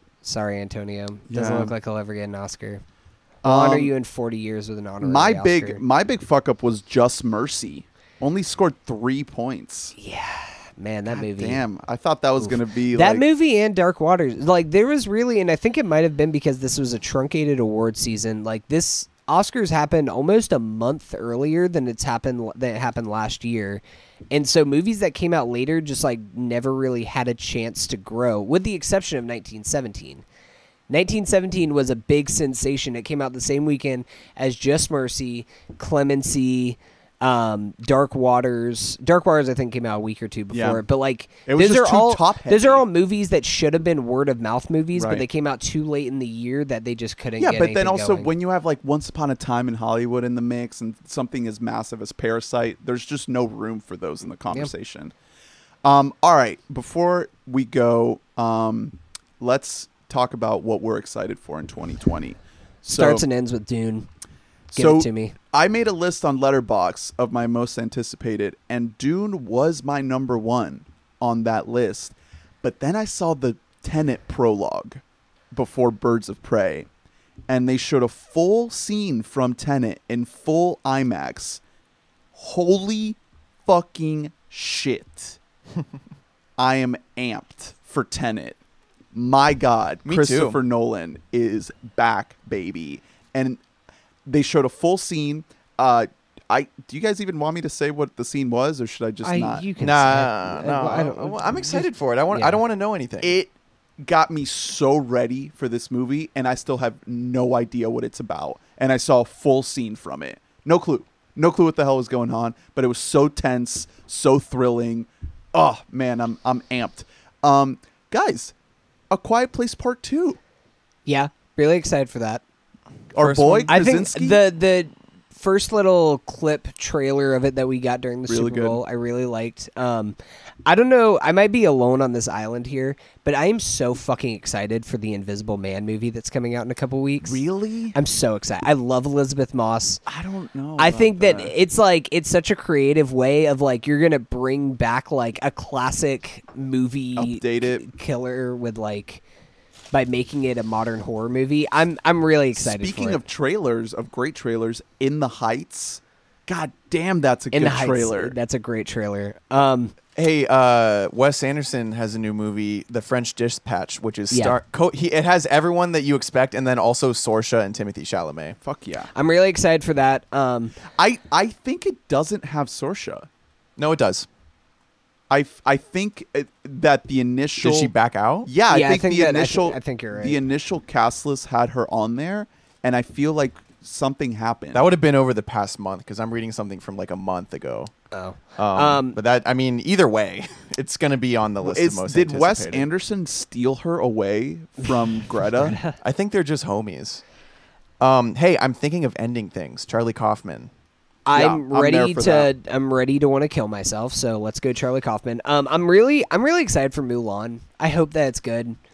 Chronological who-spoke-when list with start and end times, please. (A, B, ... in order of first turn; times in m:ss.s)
0:00.2-0:02.8 A
0:01.3-0:01.7 B
0:03.4-0:03.9 B
0:03.4-0:05.8 A
0:05.0-0:10.0 B
0:10.0-0:11.6 A
0:11.1-0:13.2 B
0:12.4-0:30.2 A
0:30.9-0:48.3 A
0:40.5-0:40.8 B
0:41.4-0:42.8 B
0:44.9-0:45.2 B
0:47.4-0:55.1 B
0:55.8-1:03.2 B
1:02.8-1:04.1 A
1:04.7-1:15.0 B
1:04.8-1:05.3 A
1:15.5-1:16.9 B
1:17.5-1:21.6 B
1:22.3-1:25.4 B
1:26.6-1:28.6 B
1:29.1-1:33.6 B
1:30.1-1:30.6 C
1:34.3-1:39.7 B
1:39.2-1:42.6 A
1:39.8-1:43.3 C
1:43.2-1:58.5 B
1:59.1-2:00.4 B
2:01.0-2:02.4 A
2:03.1-2:04.4 B
2:03.2-2:03.7 C
2:03.7-2:17.4 A
2:08.3-2:08.8 B
2:17.2-2:18.0 B
2:17.9-2:20.0 A
2:20.0-2:21.5 B
2:20.8-2:29.2 A
2:27.1-2:27.8 B
2:29.9-2:33.2 A
2:32.5-2:38.3 B
2:37.5-2:39.9 A
2:40.1-2:48.6 C
2:44.3-2:44.6 A
2:48.6-2:49.1 B
2:49.1-2:50.8 A
2:50.9-2:53.3 B
2:53.8-2:54.3 C
2:55.3-2:57.9 B
2:57.6-2:58.5 C
2:58.4-3:04.9 B
2:58.7-3:00.4 A
3:04.7-3:07.9 C
3:08.1-3:09.2 A
3:08.6-3:12.9 C
3:11.6-3:15.8 B
3:14.8-3:16.0 A
3:16.0-3:17.2 C
3:18.0-3:20.7 C
3:21.2-3:28.8 A
3:21.3-3:22.5 B